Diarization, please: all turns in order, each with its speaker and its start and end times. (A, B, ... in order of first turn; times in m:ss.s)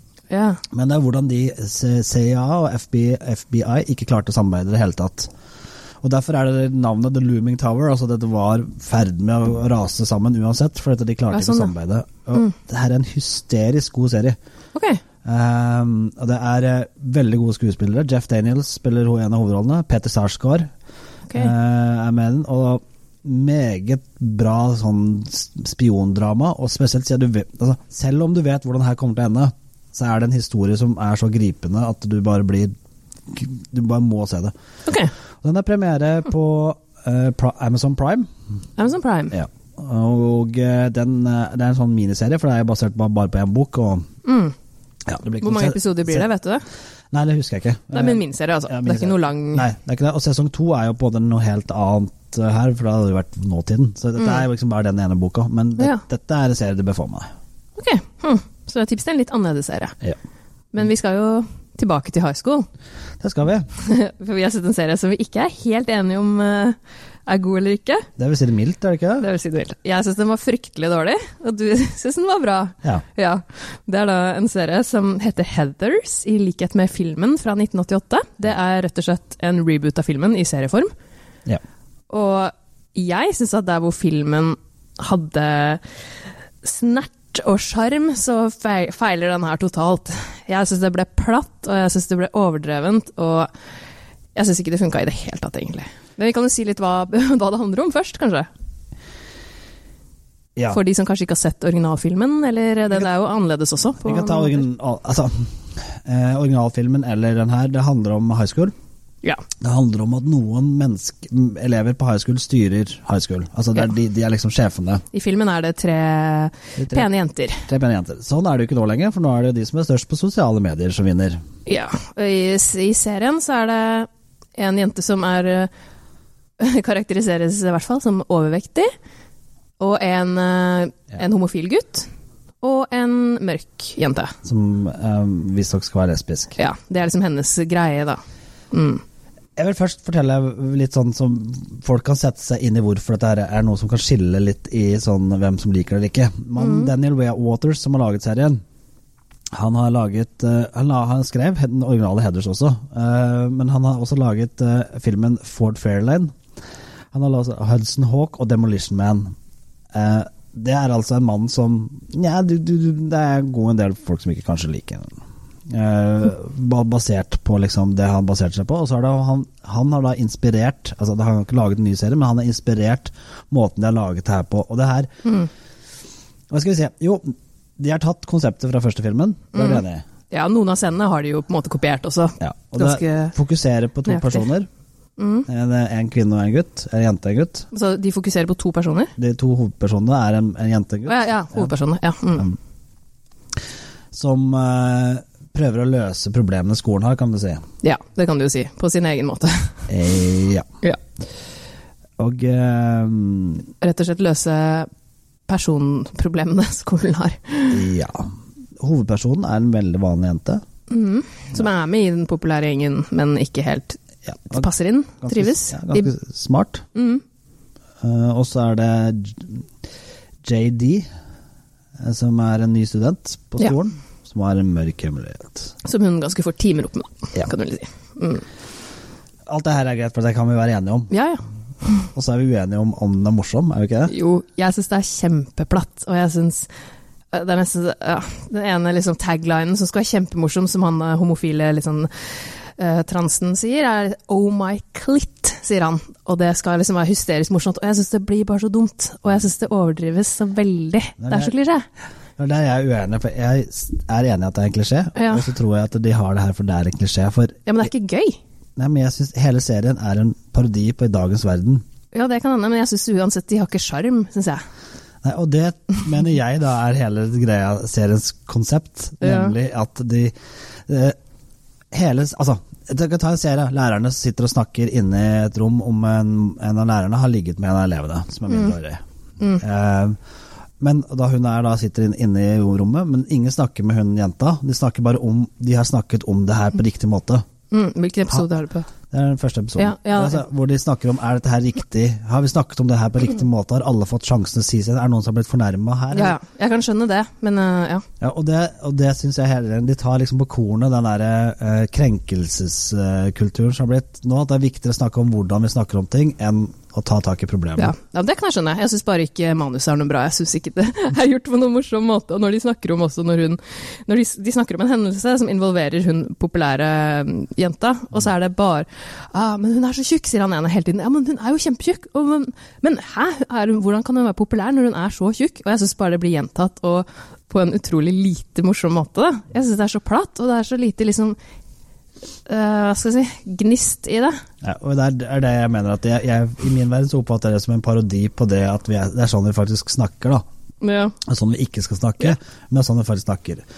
0:00.3-0:00.6 A
0:00.7-0:05.3 B
0:06.0-0:14.4 B
0:11.3-0:11.7 A
0:14.7-0:15.0 A
0:15.2-0:20.7 B
0:21.3-0:32.7 B
0:33.3-0:34.5 B
0:34.9-0:35.1 A
0:35.4-0:38.3 B
0:38.8-0:39.3 A
0:39.3-0:44.1 B
0:44.2-0:44.5 A
0:45.1-0:46.3 B
0:45.4-0:46.6 A
0:47.1-0:57.3 B
0:47.9-0:49.6 A
0:57.8-1:00.0 A
1:00.7-1:02.7 A
1:03.2-1:03.7 B
1:03.8-1:08.1 A
1:08.2-1:09.3 B
1:09.2-1:20.9 A
1:22.1-1:25.8 A
1:26.6-1:33.5 A
1:34.3-1:38.5 A
1:40.7-1:44.6 A
1:44.0-1:48.7 B
1:49.6-1:55.0 B
1:55.1-1:57.6 A
1:56.8-1:57.1 B
1:57.6-2:01.4 B
2:01.6-2:05.7 A
2:06.6-2:08.9 A
2:09.8-2:12.1 A
2:12.6-2:14.3 A
2:14.4-2:16.6 B
2:16.6-2:19.0 A
2:19.6-2:28.6 B
2:26.6-2:26.9 A
2:29.5-2:36.3 B
2:37.1-2:39.3 B
2:39.9-2:45.2 B
2:45.7-2:55.1 B
2:55.2-2:55.5 A
2:56.5-3:00.0 B
2:59.5-3:03.3 A
3:02.4-3:04.7 B
3:04.0-3:04.4 A
3:05.2-3:05.5 A
3:05.5-3:07.7 B
3:07.7-3:09.1 A
3:09.2-3:11.7 B
3:11.0-3:12.5 A
3:14.1-3:17.6 B
3:17.8-3:19.8 A
3:19.9-3:20.7 B
3:22.2-3:23.7 B
3:23.8-3:24.9 A
3:25.5-3:27.8 A
3:27.7-3:30.6 B
3:30.9-3:34.0 A
3:34.2-3:34.7 B
3:34.5-3:36.1 A
3:35.2-3:36.8 B
3:36.9-3:37.2 A
3:38.0-3:39.6 B
3:40.4-3:41.1 B
3:42.0-3:45.7 B
3:45.8-3:48.4 A
3:49.4-3:51.1 B
3:51.1-3:52.1 A
3:52.1-3:54.1 B
3:54.1-3:56.7 A
3:57.3-4:11.8 A
4:11.2-4:11.5 B
4:12.4-4:17.6 B
4:15.2-4:15.4 A
4:17.7-4:18.4 A
4:18.8-4:21.8 B
4:22.1-4:24.6 A
4:25.2-4:30.3 B
4:29.2-4:29.5 A
4:30.9-4:31.2 B
4:31.9-4:39.0 B
4:38.5-4:38.7 A
4:39.6-4:40.2 B
4:40.8-4:47.4 B
4:47.7-4:48.9 A
4:49.1-4:56.4 B
4:49.8-4:50.4 A
4:56.1-4:58.0 A
4:58.2-5:07.9 B
5:07.8-5:31.4 A
5:32.5-5:34.4 A
5:34.6-5:40.4 B
5:40.8-5:41.2 A
5:41.2-5:43.6 B